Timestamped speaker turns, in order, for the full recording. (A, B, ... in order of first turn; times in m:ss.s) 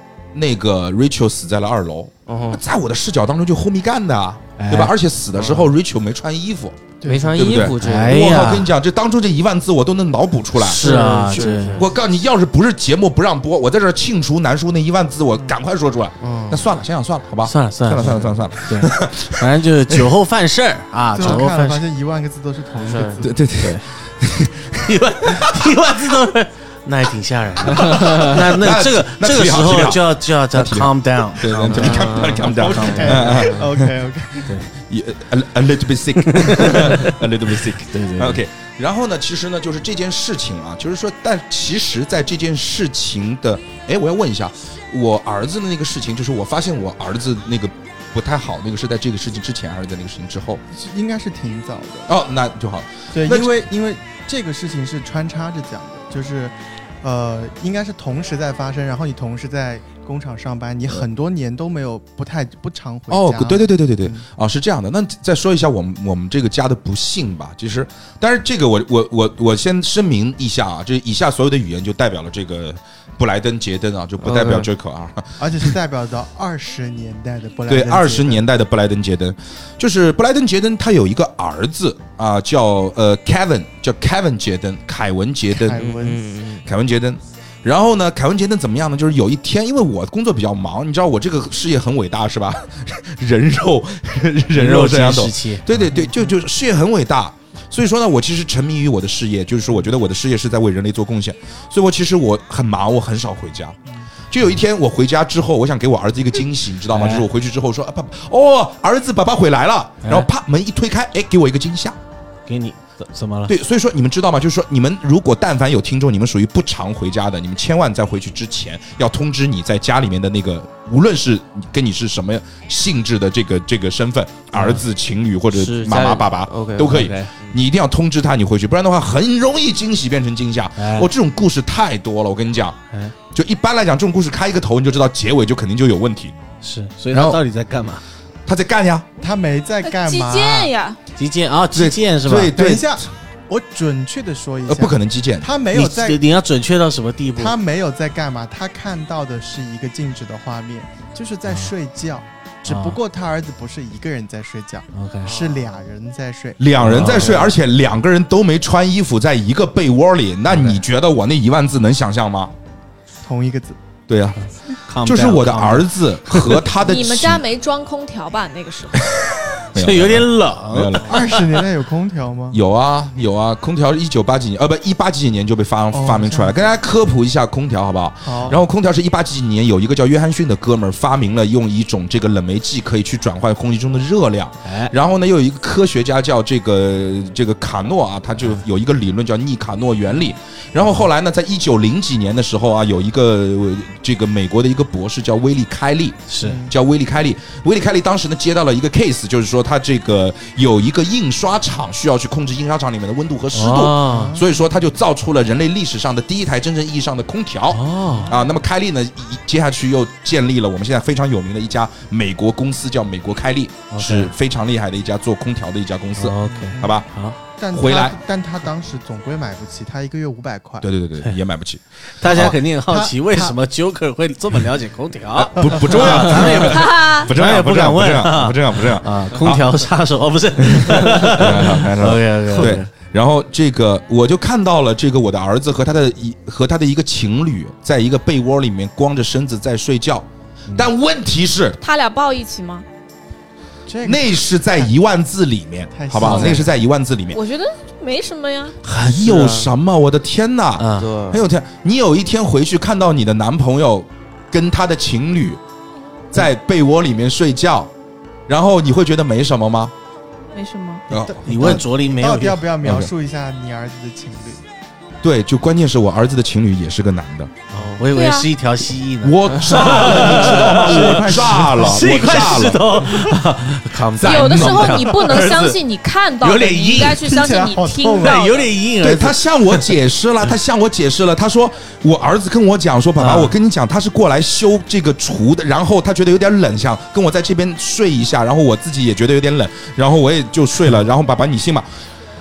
0:00.3-0:20.0 A
0:02.3-0:02.6 B
0:04.6-0:04.9 C
0:05.4-0:05.7 B
0:07.0-0:07.5 D
0:07.0-0:08.4 B
0:07.8-0:08.7 C
0:10.6-0:11.9 C
0:10.8-0:11.9 B
0:16.2-0:16.7 B
0:17.4-0:21.8 C
0:21.1-0:23.3 D
0:22.8-0:23.2 B
0:23.2-0:25.7 A
0:23.6-0:23.9 C
0:24.8-0:33.5 C
0:27.7-0:33.9 A
0:31.7-0:33.6 B
0:32.9-0:34.6 D
0:34.5-0:34.7 C
0:34.7-0:50.6 A
0:36.2-0:37.2 C
0:37.8-0:38.4 C
0:50.7-0:52.1 D
0:52.1-0:53.6 A
0:53.1-1:04.3 D
1:03.1-1:15.7 A
1:14.2-1:14.7 B
1:15.4-1:18.4 D
1:17.7-1:25.9 A
1:25.5-1:26.2 D
1:25.7-1:26.7 B
1:26.6-1:43.8 A
1:34.5-1:35.8 C
1:35.9-1:36.4 D
1:44.3-1:52.0 A
1:46.9-1:47.3 C
1:50.0-1:50.3 C
1:52.5-1:53.5 C
1:53.5-2:12.8 A
2:04.5-2:04.8 C
2:05.5-2:07.6 B
2:07.0-2:07.2 C
2:10.8-2:11.1 C
2:13.3-2:16.4 A
2:16.6-2:18.0 C
2:17.1-2:17.4 A
2:18.5-2:19.1 A
2:19.2-2:20.7 D
2:19.8-2:21.0 E
2:21.2-2:22.6 C
2:21.7-2:23.0 A
2:22.5-2:26.2 D
2:24.7-2:25.5 A
2:25.7-2:27.6 C
2:27.4-2:37.5 D
2:31.5-2:31.7 C
2:32.6-2:33.0 C
2:34.9-2:35.4 C
2:35.3-2:35.6 B
2:36.6-2:42.5 A
2:36.8-2:37.6 C
2:40.5-2:40.8 C
2:43.2-2:43.8 D
2:44.1-2:44.4 A
2:44.4-2:46.6 C
2:45.0-2:47.4 A
2:46.8-2:49.1 E
2:49.0-2:51.4 A
2:49.8-2:51.2 C
2:51.1-2:52.6 D
2:52.5-3:37.1 A
2:55.9-2:56.7 D
2:58.2-2:58.6 D
3:04.6-3:04.9 C
3:16.3-3:16.6 C
3:16.4-3:16.8 D
3:23.5-3:24.4 C
3:24.0-3:24.6 D
3:27.7-3:28.3 C
3:28.1-3:28.6 D
3:33.9-3:34.3 C
3:36.2-3:37.4 C
3:36.4-3:37.0 D
3:37.6-3:40.9 D
3:37.7-3:38.2 A
3:40.8-3:42.6 A
3:42.2-3:52.9 C
3:42.2-3:43.6 D
3:45.4-3:49.7 A
3:45.6-3:46.6 D
3:46.7-3:47.3 E
3:50.6-4:01.8 A
4:01.8-4:02.9 E
4:03.9-4:04.9 D
4:04.0-4:07.4 A
4:05.9-4:06.7 D
4:06.2-4:06.6 C
4:07.3-4:08.8 E
4:08.9-4:15.6 A
4:08.9-4:09.4 C
4:09.2-4:09.7 B
4:10.8-4:11.1 C
4:11.0-4:11.4 B
4:16.3-4:17.9 A
4:18.5-4:19.9 A
4:20.5-4:21.0 E
4:21.1-4:21.8 A
4:21.1-4:24.6 D
4:21.4-4:22.7 C
4:22.8-4:23.1 A
4:25.2-4:27.5 A
4:27.7-4:35.8 C
4:28.1-4:28.5 E
4:29.2-4:33.4 A
4:29.9-4:32.7 D
4:34.1-4:35.1 A
4:34.2-4:38.7 E
4:34.4-4:34.7 B
4:36.4-4:37.2 C
4:37.0-4:38.5 D
4:38.2-4:39.9 C
4:39.0-4:51.9 A
4:43.2-4:43.6 C